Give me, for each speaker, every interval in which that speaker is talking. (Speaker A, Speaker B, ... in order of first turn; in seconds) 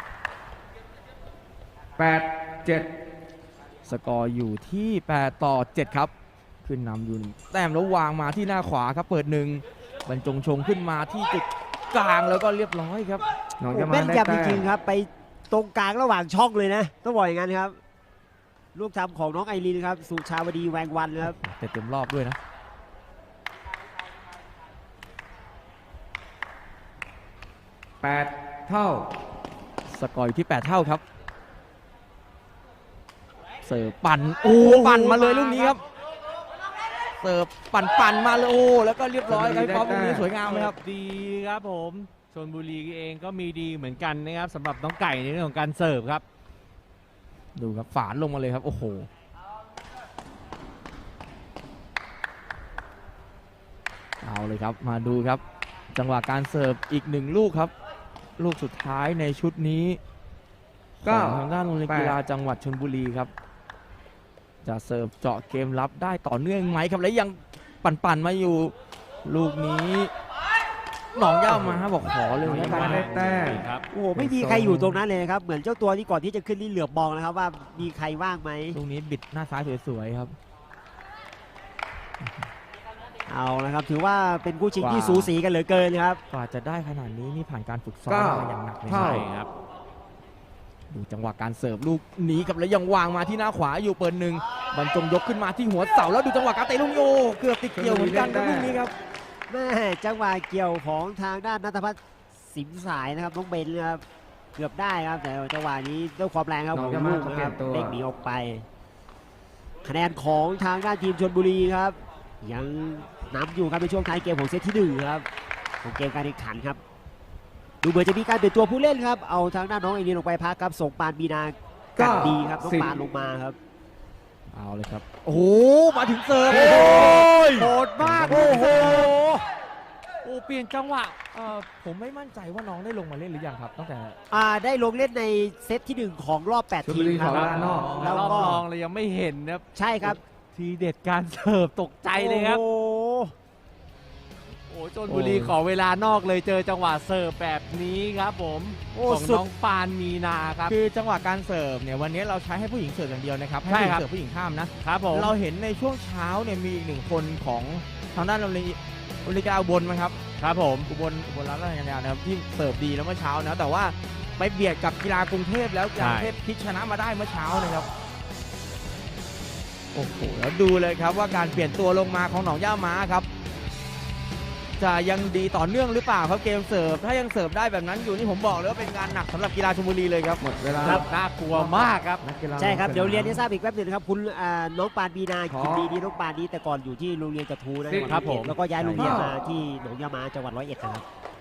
Speaker A: 2.0-2.9, 13.6-14.7, 28.0-29.1, 39.3-40.3, 61.0-62.2, 71.5-71.8, 72.5-73.6, 74.2-75.0, 88.1-89.3, 97.8-98.8, 106.7-107.9, 122.0-123.0, 136.8-138.0, 180.4-181.1, 182.2-183.4, 185.5-185.9, 187.9-188.4, 188.9-189.3
Speaker B: 3.8-6.1, 6.6-13.2, 21.2-22.4, 29.9-31.0, 33.6-35.8, 37.2-40.8, 47.5-49.1, 54.2-55.4, 55.9-57.7, 58.4-60.0, 61.0-63.3, 64.6-68.7, 69.2-70.1, 71.2-73.1, 78.7-80.3, 82.2-82.5, 84.8-85.3, 86.3-89.2, 90.9-98.9, 124.5-127.3, 128.0-129.1, 131.3-134.2, 137.5-138.6, 145.1-145.5, 150.7-160.2, 160.9-167.9, 169.9-173.3, 174.8-180.4, 188.8-189.3
Speaker C: 13.7-17.8, 18.8-21.4, 73.9-78.8, 83.3-86.2, 99.5-104.0, 104.5-108.7, 109.8-115.3, 115.8-116.8, 117.8-123.6, 126.5-127.7, 128.3-129.4, 134.3-138.6, 139.8-140.2, 142.1-143.3, 148.9-149.4, 181.6-181.9, 182.6-191.1
Speaker D: 34.5-35.8, 40.4-46.2, 72.4-73.8, 88.9-89.5, 126.5-129.1, 130.2-131.3, 137.3-142.6, 144.7-150.8, 153.6-154.1, 154.8-155.3, 160.4-160.9, 166.0-166.3, 180.8-182.2, 188.1-188.5